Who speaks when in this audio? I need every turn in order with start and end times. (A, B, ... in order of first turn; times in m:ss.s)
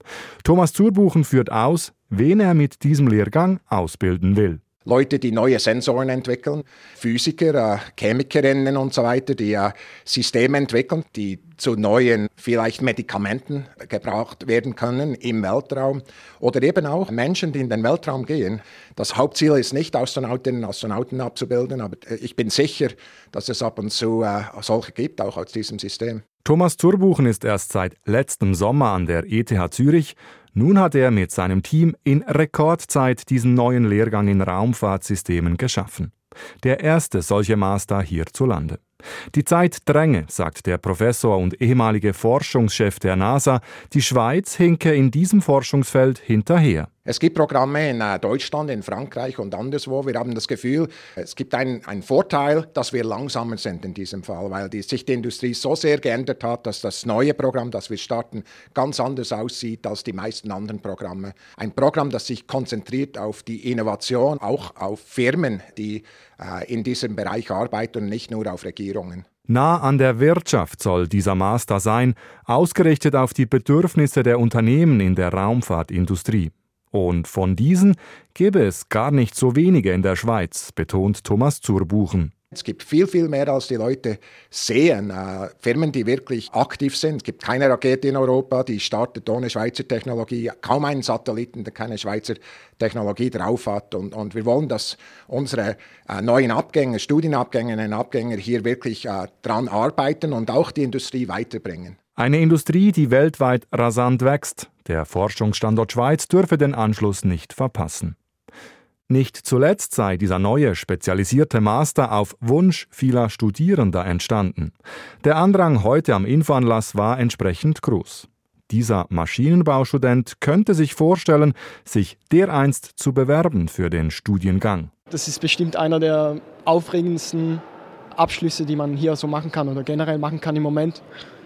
0:00.4-0:04.6 A
0:04.9-0:26.2 B
0:26.4-0:46.9 A
0:47.1-1:09.3 B
1:09.5-1:22.3 A
1:22.5-1:42.0 B
1:42.2-1:48.2 A
1:49.1-2:04.9 A
2:05.1-2:07.6 C
2:08.2-2:11.0 C